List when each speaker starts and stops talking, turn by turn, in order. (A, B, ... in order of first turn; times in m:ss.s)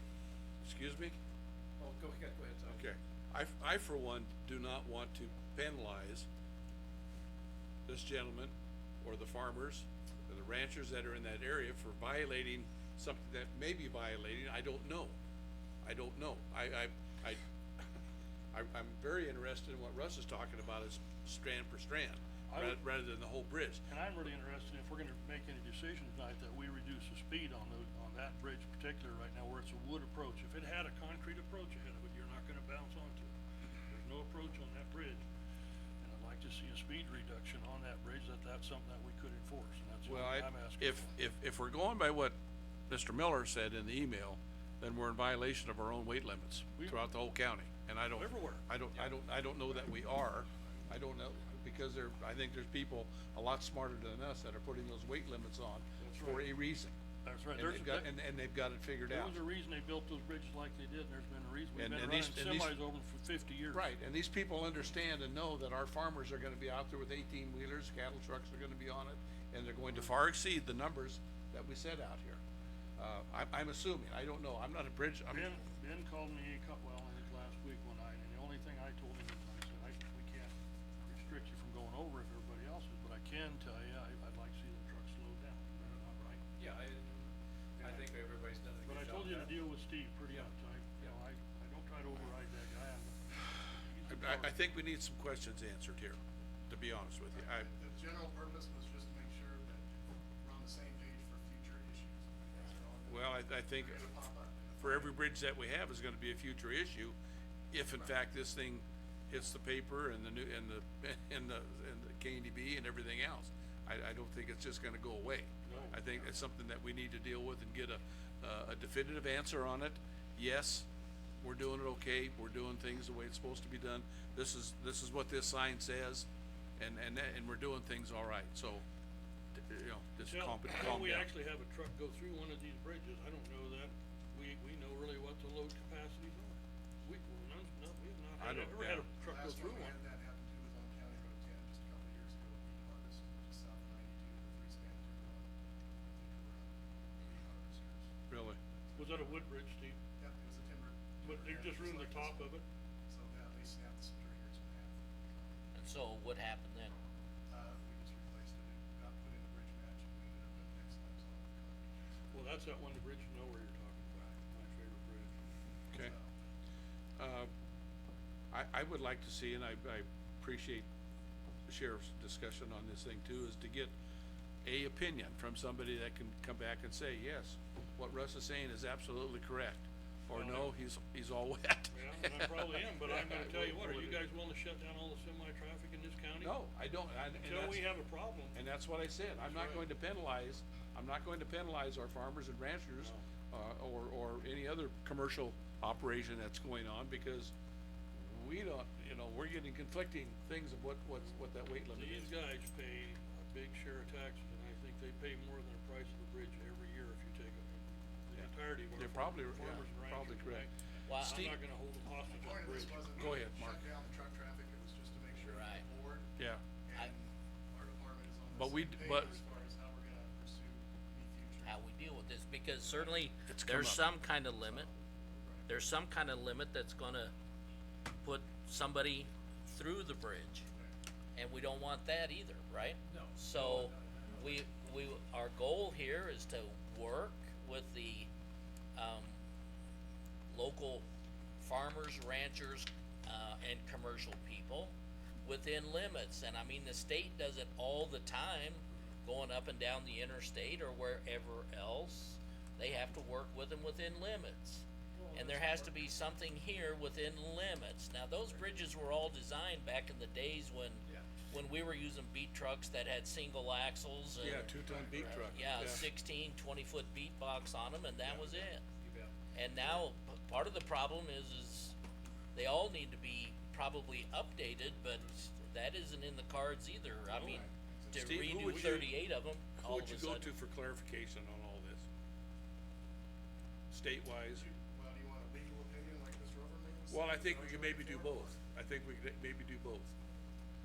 0:00.6-0:01.1 A
0:01.8-0:02.8 B
0:02.7-0:06.3 A
0:07.8-0:15.1 A
0:15.8-0:17.8 A
0:18.5-0:23.8 A
0:22.5-0:22.8 C
0:23.9-0:33.3 C
0:33.9-0:35.2 C
0:36.0-0:41.1 C
0:40.0-0:42.3 A
0:42.9-0:56.9 A
0:46.8-0:47.0 C
0:48.1-0:48.6 C
0:56.0-0:56.5 C
0:57.2-0:58.1 C
0:57.5-0:59.4 A
0:59.1-1:03.9 C
1:01.7-1:02.7 A
1:03.7-1:12.4 A
1:13.0-1:15.6 A
1:15.3-1:20.5 C
1:21.1-1:26.4 C
1:26.5-1:29.7 B
1:28.8-1:34.6 C
1:30.3-1:31.1 B
1:34.1-1:37.7 A
1:37.3-1:45.1 D
1:43.1-1:44.1 A
1:44.8-1:47.2 A
1:47.7-2:00.9 A
1:55.6-1:56.0 C
2:01.4-2:06.3 A
2:06.8-2:08.8 A
2:09.5-2:11.3 A
2:10.2-2:20.0 C
2:18.4-2:19.0 A
2:19.2-2:25.5 D
2:26.0-2:28.1 D
2:28.3-2:28.6 A
2:28.7-2:29.5 D
2:29.0-2:30.0 C
2:30.2-2:32.5 D
2:31.2-2:32.6 C
2:33.1-2:35.5 D
2:35.7-2:36.9 E
2:37.5-2:41.9 D
2:42.3-2:45.3 C
2:45.9-2:46.3 D
2:47.2-2:47.5 A
2:48.5-2:50.9 A
2:51.7-2:53.9 A
2:54.6-3:04.2 A
3:00.3-3:00.7 C
3:01.9-3:06.6 C
3:06.4-3:07.8 A
3:07.3-3:08.6 C
3:08.5-3:17.5 A
3:09.4-3:09.9 C
3:18.1-3:22.4 A
3:21.9-3:33.1 C
3:28.3-3:30.6 A
3:31.1-3:31.5 E
3:31.2-3:31.6 A
3:32.3-3:41.8 D
3:33.1-3:33.9 A
3:35.5-3:35.8 E
3:38.5-3:39.4 A
3:41.6-3:44.9 E
3:42.8-3:43.1 D
3:43.5-3:44.0 A
3:44.6-3:45.6 D
3:45.7-3:47.3 E
3:48.2-3:50.7 E
3:51.3-3:58.3 E
3:53.1-3:54.0 B
3:59.0-3:59.4 E
4:00.5-4:01.0 E
4:01.6-4:28.8 E
4:15.2-4:16.0 B
4:24.4-4:26.1 A
4:29.0-4:29.3 B
4:29.5-4:31.9 E
4:32.5-4:40.5 E
4:37.3-4:38.8 D
4:38.1-4:39.1 A
4:39.8-4:42.0 A
4:43.9-4:44.6 A
4:44.5-4:48.6 D
4:47.1-4:50.1 A